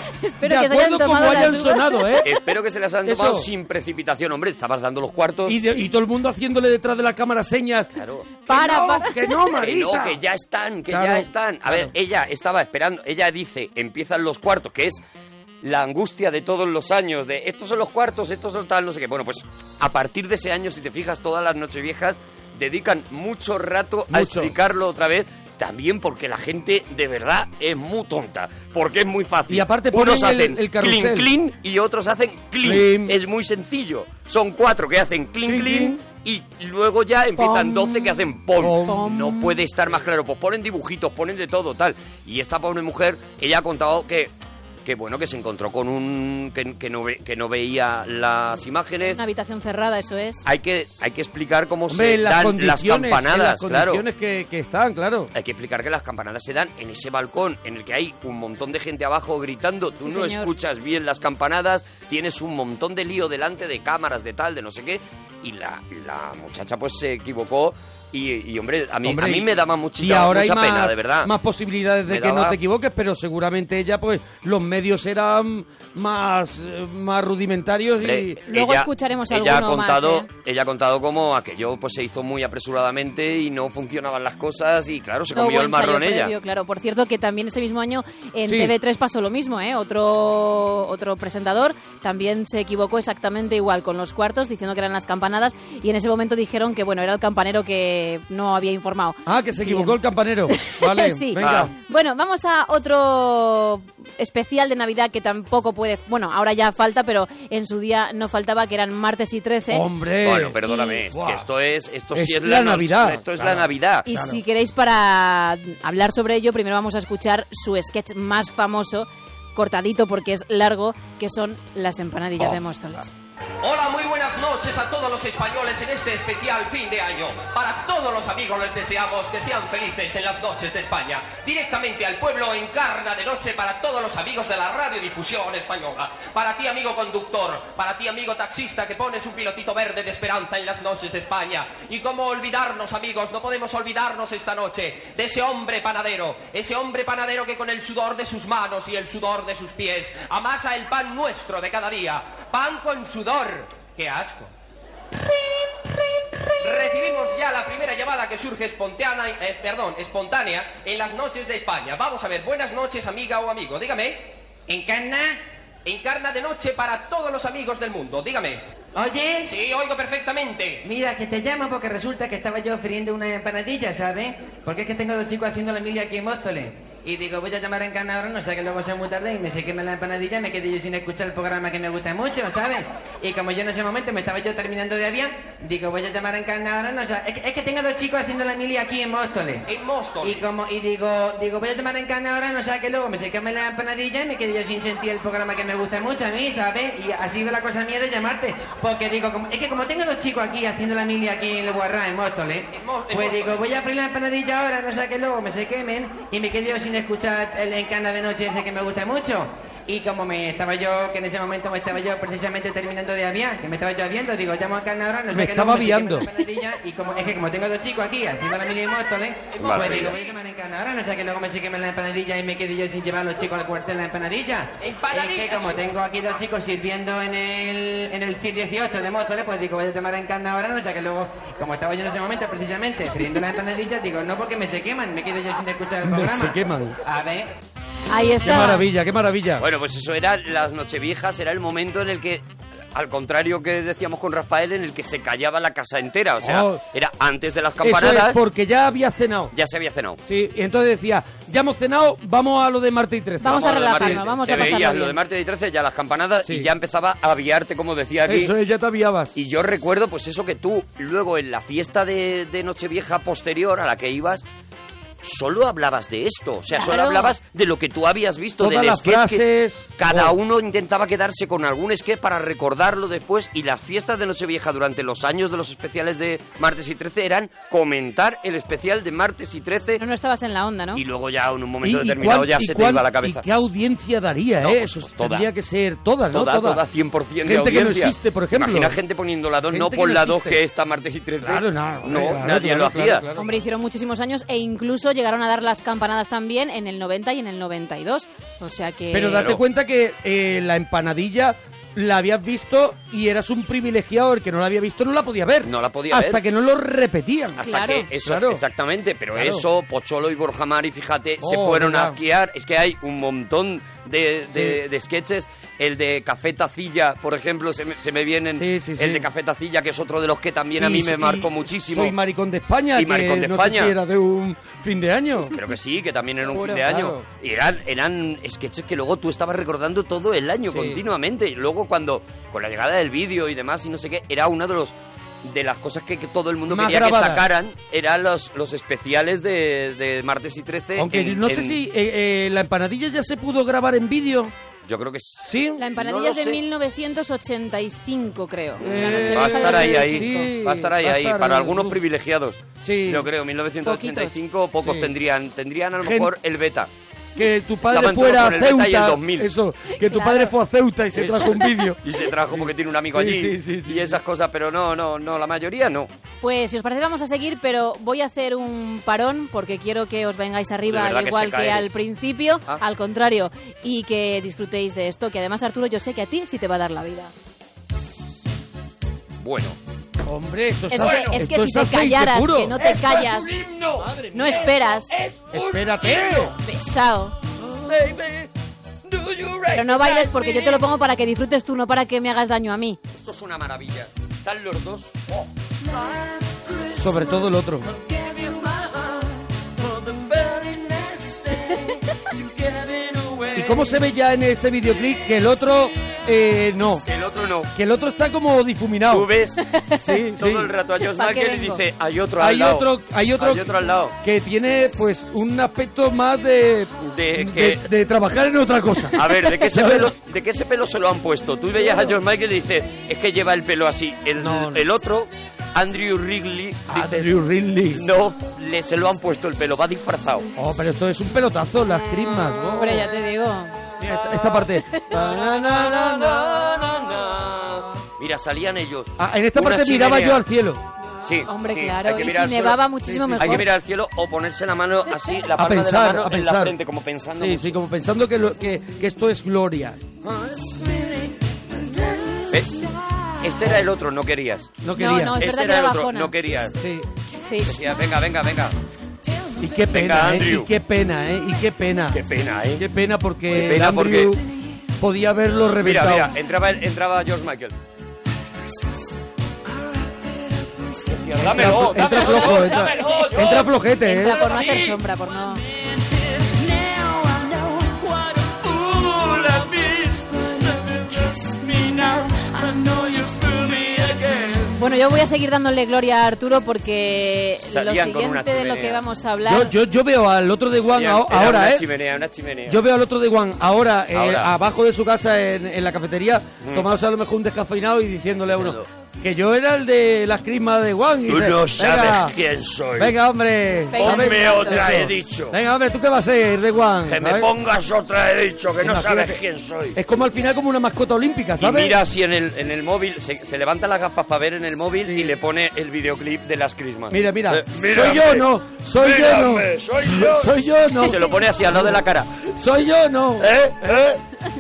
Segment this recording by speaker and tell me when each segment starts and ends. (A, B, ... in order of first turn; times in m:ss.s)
0:00.2-0:02.2 A
0:00.4-0:02.3 B
0:02.2-0:05.6 C
0:03.0-0:03.5 B
0:05.5-0:07.9 B
0:07.9-0:08.3 C
0:08.5-0:09.4 A
0:08.5-0:10.2 B
0:09.6-0:15.0 C
0:10.9-0:11.9 B
0:15.6-0:44.3 C
0:24.1-0:24.5 B
0:29.5-0:31.3 B
0:32.6-0:33.2 B
0:35.4-0:36.0 B
0:37.4-0:38.3 A
0:38.6-0:39.0 B
0:38.8-0:39.6 A
0:44.8-0:49.2 C
0:49.2-0:50.4 A
0:50.4-0:54.0 C
0:51.9-0:55.3 B
0:55.3-1:11.3 C
1:00.0-1:00.5 A
1:09.0-1:18.4 B
1:12.1-1:12.6 C
1:18.0-1:26.3 C
1:18.5-1:20.3 A
1:25.3-1:40.0 A
1:28.4-1:28.7 B
1:39.2-1:41.7 B
1:40.6-1:49.8 A
1:41.4-1:41.7 C
1:49.7-1:50.6 B
1:50.2-1:54.0 C
1:50.6-1:51.0 A
1:51.1-1:51.4 B
1:52.1-1:54.4 B
1:54.0-2:03.1 A
2:03.6-2:34.5 D
2:36.6-2:44.4 D
2:44.7-2:45.4 E
2:45.8-2:48.6 D
2:48.9-2:49.5 E
2:49.5-2:50.8 D
2:50.8-3:09.7 E
3:09.7-3:10.5 D
3:10.2-3:57.5 E
3:22.7-3:23.6 D
3:35.3-3:36.3 B
3:39.5-3:40.2 C
3:39.8-3:40.3 D
3:44.8-3:45.8 D
3:56.0-3:57.0 B
3:58.1-3:58.8 A
3:58.4-3:59.6 B
3:59.6-4:08.4 C
4:06.4-4:06.8 B
4:07.8-4:09.5 B
4:09.5-4:10.2 C
4:10.2-4:14.7 B
4:13.4-4:15.2 A
4:13.4-4:18.5 C
4:18.2-4:19.3 B
4:19.3-4:24.4 C
4:25.2-4:29.4 C
4:26.7-4:27.3 A
4:28.6-4:30.3 B
4:30.0-4:40.0 C
4:40.0-4:41.0 A
4:40.9-4:43.4 C
4:41.8-4:46.8 B
4:44.6-4:45.5 C
4:46.3-4:53.2 C
4:47.4-4:49.0 B
4:49.7-4:50.6 B
4:51.4-4:53.6 B
4:53.4-4:59.5 A
4:59.1-5:07.6 B
5:05.6-5:06.4 C
5:07.6-5:22.1 C
5:07.6-5:08.1 A
5:08.2-5:08.6 B
5:09.3-5:09.6 B
5:11.4-5:12.2 B
5:14.5-5:14.8 B
5:18.5-5:19.2 B
5:20.8-5:25.6 B
5:22.9-5:23.9 C
5:25.5-5:41.8 C
5:26.5-5:27.2 B
5:30.7-5:31.0 B
5:36.7-5:37.4 B
5:41.0-5:44.5 B
5:44.8-5:46.6 C
5:45.4-5:45.8 B
5:45.8-5:50.5 A
5:48.8-5:52.0 B
5:48.8-5:56.9 C
5:52.8-5:53.2 B
5:53.8-5:54.3 A
5:54.8-5:55.1 B
5:56.0-5:56.3 B
5:57.4-6:02.0 B
5:57.9-5:59.5 C
6:00.0-6:00.5 A
6:01.1-6:06.1 C
6:02.5-6:04.2 B
6:06.4-6:17.3 A
6:10.9-6:11.9 C
6:19.4-6:19.8 C
6:20.2-6:22.8 B
6:20.9-6:23.5 A
6:20.9-6:21.4 C
6:22.8-6:26.6 C
6:24.0-6:24.7 B
6:24.3-6:25.1 A
6:25.5-6:26.5 B
6:26.6-6:27.3 A
6:27.8-6:28.5 C
6:29.1-6:30.8 C
6:29.7-6:33.0 A
6:33.1-6:37.0 C
6:36.9-6:37.9 B
6:37.9-6:44.0 C
6:43.5-6:47.0 B
6:47.0-6:47.7 C
6:47.7-6:49.3 B
6:49.1-6:49.6 C
6:49.7-6:50.0 A
6:50.0-6:50.7 B
6:50.4-6:54.1 C
6:51.0-6:51.8 A
6:52.4-7:00.1 B
6:57.0-6:57.8 C
6:59.1-7:07.4 C
7:04.4-7:04.8 B
7:06.9-7:08.0 B
7:07.9-7:10.5 C
7:10.6-7:13.1 B
7:12.1-7:12.5 C
7:12.8-7:13.7 A
7:14.0-7:16.7 B
7:15.1-7:20.4 C
7:19.2-7:20.8 B
7:21.2-7:22.8 C
7:21.5-7:23.6 A
7:23.0-7:23.7 B
7:23.4-7:27.8 C
7:25.5-7:26.7 B
7:27.4-7:30.0 B
7:32.5-7:32.9 C
7:33.4-7:34.7 C
7:34.8-7:35.4 B
7:35.0-7:36.4 A
7:35.4-7:36.8 C
7:36.8-7:37.1 B
7:37.4-7:37.7 A
7:37.6-7:38.7 C
7:39.6-7:42.2 B
7:39.9-7:40.7 C
7:42.1-7:42.8 C
7:42.8-7:44.4 B
7:43.5-7:44.4 C
7:45.0-7:46.3 B
7:45.8-7:47.7 C
7:51.0-7:53.7 C
7:51.4-7:54.5 B
7:54.0-7:55.6 A
7:54.4-7:54.9 C
7:58.6-8:04.7 C
8:04.7-8:09.7 A
8:07.6-8:09.0 C
8:09.4-8:11.8 B
8:10.9-8:12.8 C
8:12.7-8:22.3 B
8:14.1-8:14.5 C
8:16.6-8:16.9 C
8:18.5-8:18.9 C
8:21.3-8:23.2 C
8:23.0-8:27.5 B
8:23.9-8:24.8 A
8:24.0-8:25.6 C
8:27.1-8:30.0 C
8:28.8-8:29.4 B
8:29.9-8:32.0 B
8:31.6-8:42.5 C
8:35.0-8:35.4 B
8:37.1-8:44.2 B
8:43.4-8:44.2 C